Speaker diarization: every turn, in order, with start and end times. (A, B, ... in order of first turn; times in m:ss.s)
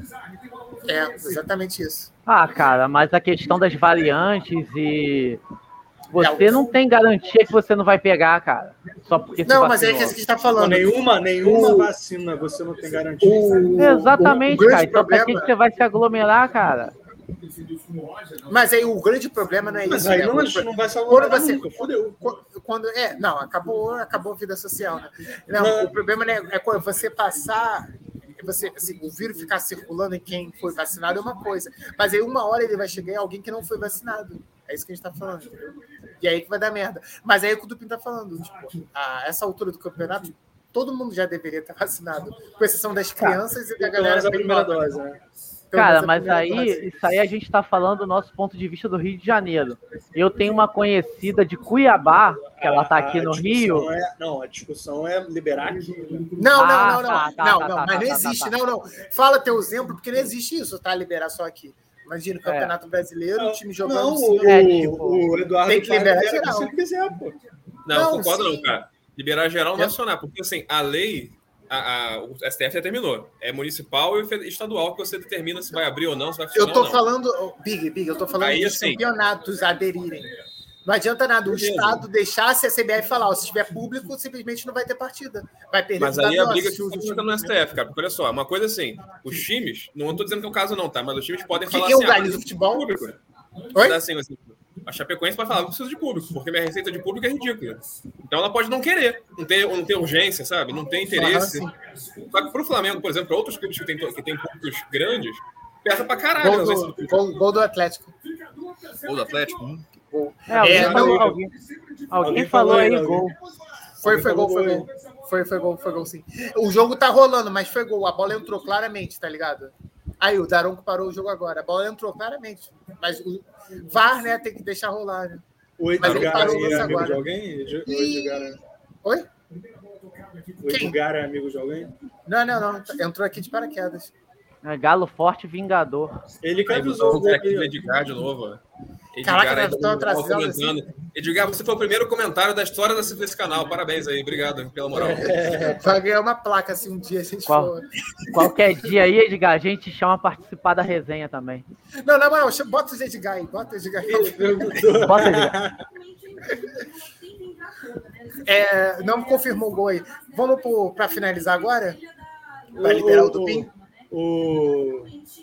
0:00.8-0:02.1 A
0:02.2-0:05.4 B
0:06.1-0:10.2 B
0:06.2-0:06.7 A
0:09.4-0:11.9 A
0:10.6-0:14.0 C
0:13.2-0:15.5 A
0:13.8-0:16.9 B
0:18.5-0:35.5 A
0:19.9-0:22.1 C
0:25.6-0:25.9 C
0:36.2-0:45.0 A
0:43.8-0:45.2 C
0:45.7-0:47.0 A
0:45.7-0:53.9 B
0:52.6-0:56.3 C
0:56.4-1:04.9 A
0:56.6-0:58.5 B
1:02.4-1:02.7 B
1:03.4-1:07.4 C
1:04.4-1:05.2 B
1:05.6-1:06.7 A
1:07.9-1:17.0 D
1:07.9-1:08.7 A
1:16.5-1:20.3 A
1:18.4-1:19.0 D
1:20.8-1:27.5 A
1:21.4-1:22.0 D
1:26.0-1:33.2 D
1:31.6-1:32.9 A
1:33.7-1:34.0 A
1:33.8-1:41.7 D
1:41.1-1:41.7 A
1:42.3-1:47.2 D
1:46.4-1:48.1 A
1:49.0-1:49.8 D
1:50.1-1:51.3 A
1:50.5-1:51.5 B
1:50.6-1:51.4 C
1:52.1-1:53.3 B
1:52.2-1:53.3 C
1:54.0-1:54.9 C
1:54.0-2:05.4 A
2:05.8-2:08.6 C
2:06.0-2:07.0 D
2:06.0-2:07.3 A
2:07.8-2:09.3 A
2:10.6-2:11.9 C
2:10.7-2:11.0 A
2:12.2-2:14.1 A
2:14.6-2:16.2 B
2:16.4-2:17.7 C
2:16.6-2:18.6 D
2:19.1-2:25.6 D
2:19.2-2:20.8 A
2:24.9-2:25.8 C
2:25.6-2:27.9 A
2:27.5-2:27.7 B
2:28.3-2:31.6 B
2:32.0-2:34.9 A
2:34.0-2:35.8 C
2:35.0-2:35.6 B
2:36.5-2:36.7 A
2:38.4-2:42.0 A
2:42.7-2:45.1 C
2:42.8-2:43.7 A